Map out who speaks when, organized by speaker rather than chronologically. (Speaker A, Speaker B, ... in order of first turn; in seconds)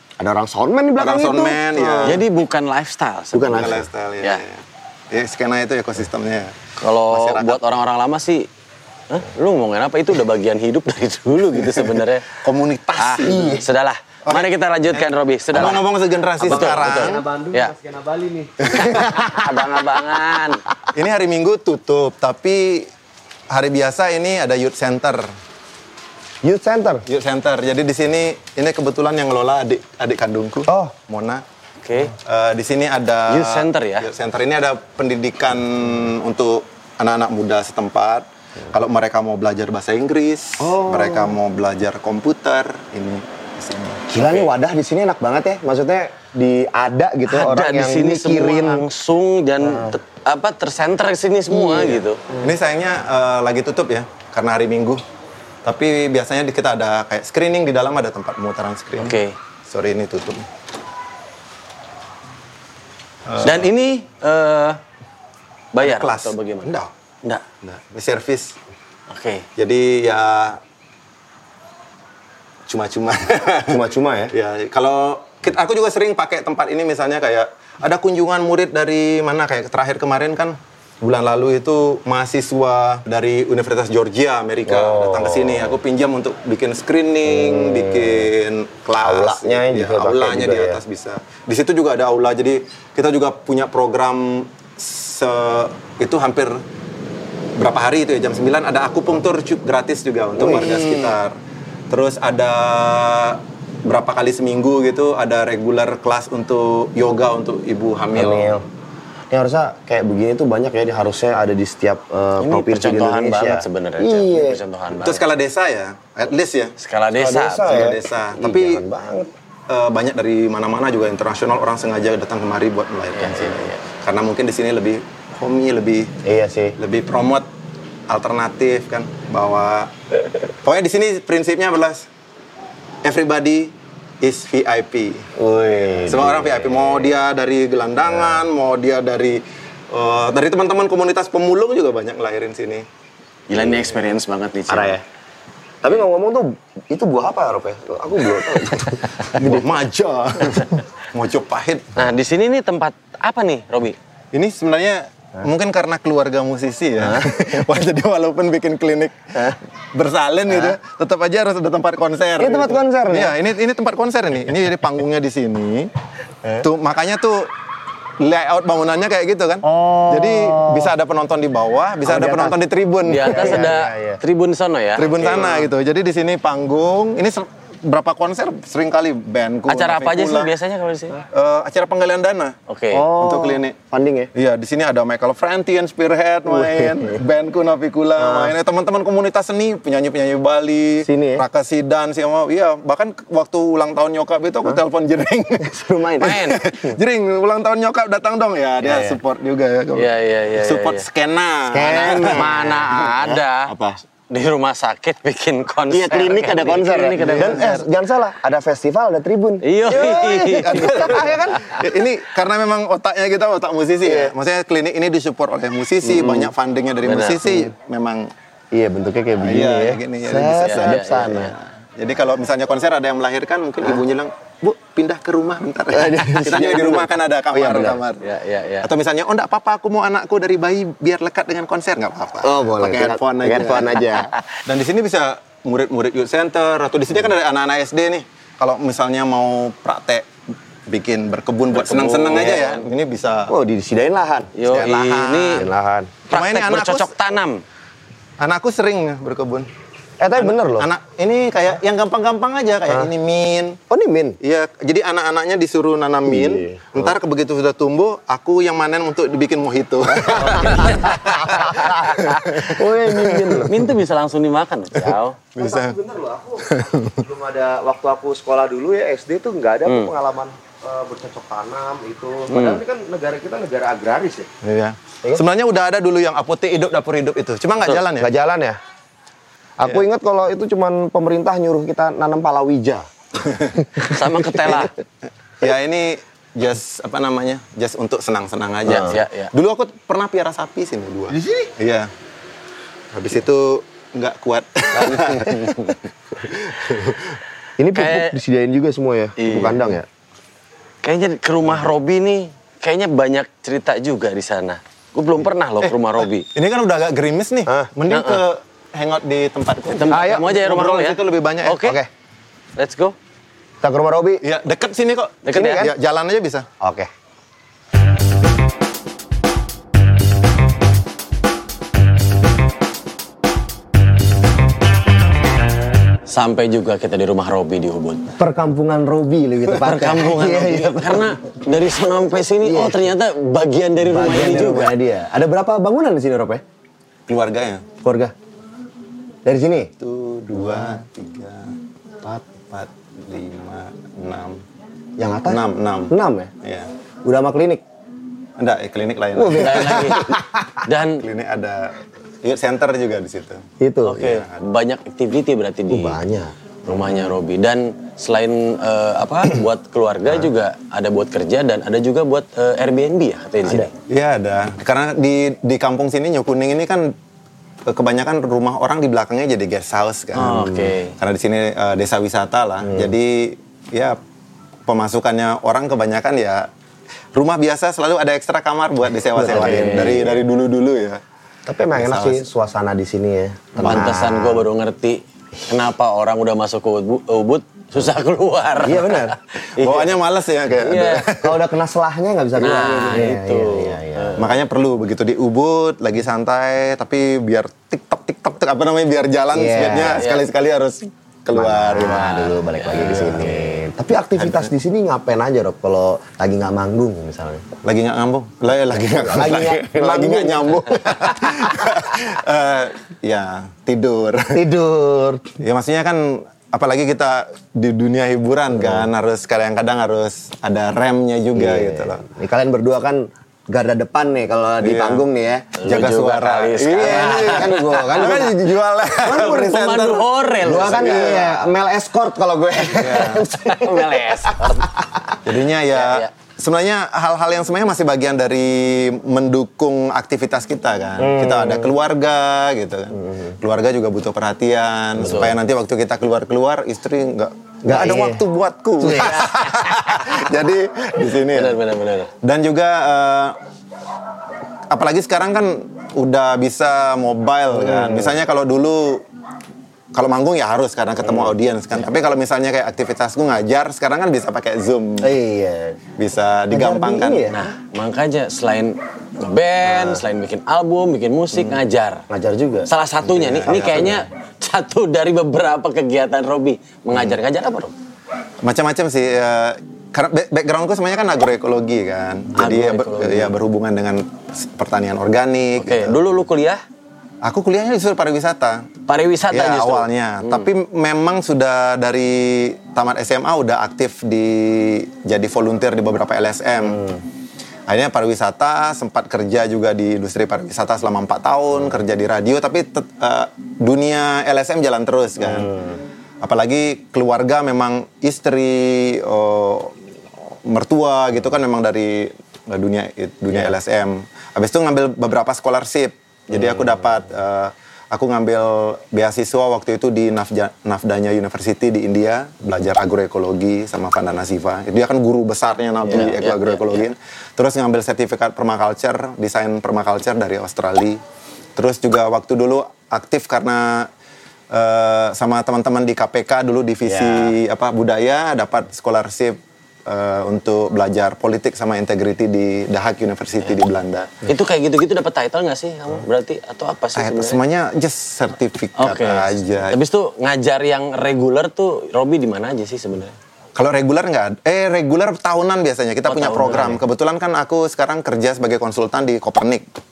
Speaker A: 0.2-2.2, 3.3-3.9, 13.2-13.7, 16.4-19.7, 26.4-27.1, 30.7-31.0, 40.6-41.4, 44.1-48.9, 49.6-50.0, 51.5-52.0, 73.7-74.3, 84.7-85.8, 87.3-88.3, 89.0-90.8, 100.4-101.1, 108.1-108.7, 109.3-114.6, 117.1-119.3, 126.2-126.8, 135.4-137.0, 144.7-145.0, 145.8-149.8, 157.0-157.4, 162.4-163.4, 169.6-170.9, 172.0-172.6, 173.2-174.2, 175.3-175.7, 182.9-184.3, 186.5-187.2, 188.2-188.6, 191.0-191.5, 195.6-197.0, 198.8-199.2, 201.7-204.0, 205.9-211.7, 214.0-214.3, 216.0-216.5, 218.7-221.5, 225.9-228.0, 232.4-234.3, 243.5-244.6, 245.5-246.1, 250.2-250.9, 253.9-254.4, 256.3-257.1, 260.2-263.8, 265.6-274.5, 278.2-278.8, 279.8-283.1, 291.3-291.7, 295.0-295.7, 297.8-300.1, 310.1-310.5, 311.8-312.1, 313.8-314.4, 315.5-315.9, 316.8-317.1, 328.4-331.4, 332.6-333.1, 334.0-336.6, 338.0-338.3, 339.4-339.9, 340.6-341.0, 345.2-346.5, 347.2-347.8, 349.4-350.8, 353.8-354.4, 355.9-356.6, 363.6-363.9, 370.4-370.9, 372.8-373.1, 379.4-380.4, 381.7-384.7, 388.8-389.4, 391.3-394.5, 399.5-400.3, 401.5-407.7, 408.9-412.0, 414.5-415.5, 418.7-419.1, 421.5-425.8, 427.0-429.8, 430.6-435.4, 441.2-441.9, 447.9-448.4, 449.0-449.9, 457.7-458.4, 465.2-466.0, 466.7-467.7, 472.3-472.9, 473.7-474.1, 505.4-505.8, 537.1-537.6
Speaker B: 1.0-2.2, 3.5-7.6, 11.8-13.6, 14.3-17.2, 18.6-19.2, 20.9-22.9, 23.5-25.3, 27.1-31.4, 32.1-44.1, 52.4-55.0, 55.6-60.5, 63.3-63.7, 65.8-66.9, 67.6-68.6, 69.6-70.6, 72.7-96.6, 97.6-101.3, 101.9-108.6, 114.9-116.8, 117.6-118.8, 119.7-126.2, 126.8-127.5, 128.1-129.9, 130.6-132.1, 133.0-135.3, 136.0-142.8, 149.3-152.0, 154.3-165.9, 166.6-167.5, 168.2-173.7, 175.0-180.5, 181.3-182.6, 183.2-183.8, 184.3-202.6, 207.2-207.8, 209.9-218.3, 219.4-228.2, 228.8-240.3, 240.9-243.6, 244.7-245.7, 246.3-247.1, 248.4-249.7, 250.3-253.8, 254.4-263.7, 265.1-266.0, 266.6-267.2, 274.6-278.3, 283.5-283.7, 285.6-292.1, 293.1-297.3, 305.8-311.9, 314.4-316.7, 337.3-337.9, 340.0-341.7, 342.4-344.6, 345.5-346.9, 348.6-350.3, 351.2-353.6, 354.2-354.5, 364.1-367.1, 367.9-374.2, 374.9-376.7, 377.3-381.2, 381.9-382.4, 383.8-384.1, 389.8-391.6, 394.4-402.4, 402.9-403.7, 404.4-404.7, 407.8-414.6, 415.6-422.2, 424.8-425.2, 425.9-431.7, 432.9-433.5, 435.4-451.8, 452.4-453.6, 454.9-459.2, 460.1-465.4, 466.2-467.5, 473.3-474.2, 478.6-486.2, 487.4-488.9, 489.5-497.2, 497.9-505.8, 506.4-509.9, 510.6-531.2, 531.8-534.1, 534.7-544.3, 547.2-550.0, 553.8-559.9
Speaker C: 2.0-4.4, 6.8-8.5, 9.1-12.4, 13.0-15.8, 16.4-17.7, 19.0-20.6, 31.8-32.1, 33.3-34.1, 44.2-44.5, 47.3-52.2, 59.0-59.4, 63.4-64.8, 65.7-66.7, 69.1-69.5, 112.4-115.2, 116.8-117.9, 123.2-123.8, 143.5-145.0, 152.0-154.0, 173.1-175.6, 179.7-181.2, 182.7-183.1, 196.2-196.6, 199.9-201.1, 201.8-203.7, 204.3-207.8, 209.6-211.8, 217.0-217.5, 220.6-221.5, 228.2-228.9, 241.7-242.8, 244.6-245.7, 246.3-247.6, 260.6-261.2, 261.7-265.4, 269.9-270.1, 272.5-272.8, 284.0-284.9, 288.9-289.5, 297.9-298.4, 299.4-299.9, 301.0-306.5, 308.1-308.4, 309.9-312.0, 312.8-313.2, 315.4-315.9, 326.3-328.4, 329.7-335.0, 349.5-351.2, 354.1-356.2, 356.9-363.9, 370.4-371.2, 379.4-380.3, 383.8-390.1, 390.7-391.4, 392.6-394.5, 400.1-400.5, 401.9-403.5, 425.8-428.4, 429.3-431.4, 433.5-434.9, 435.9-436.3, 445.2-445.5, 451.4-452.3, 467.5-472.2, 472.9-477.9, 482.6-483.6, 485.8-486.8, 489.1-490.6, 526.1-527.0, 544.5-547.6, 549.0-553.4, 556.2-557.0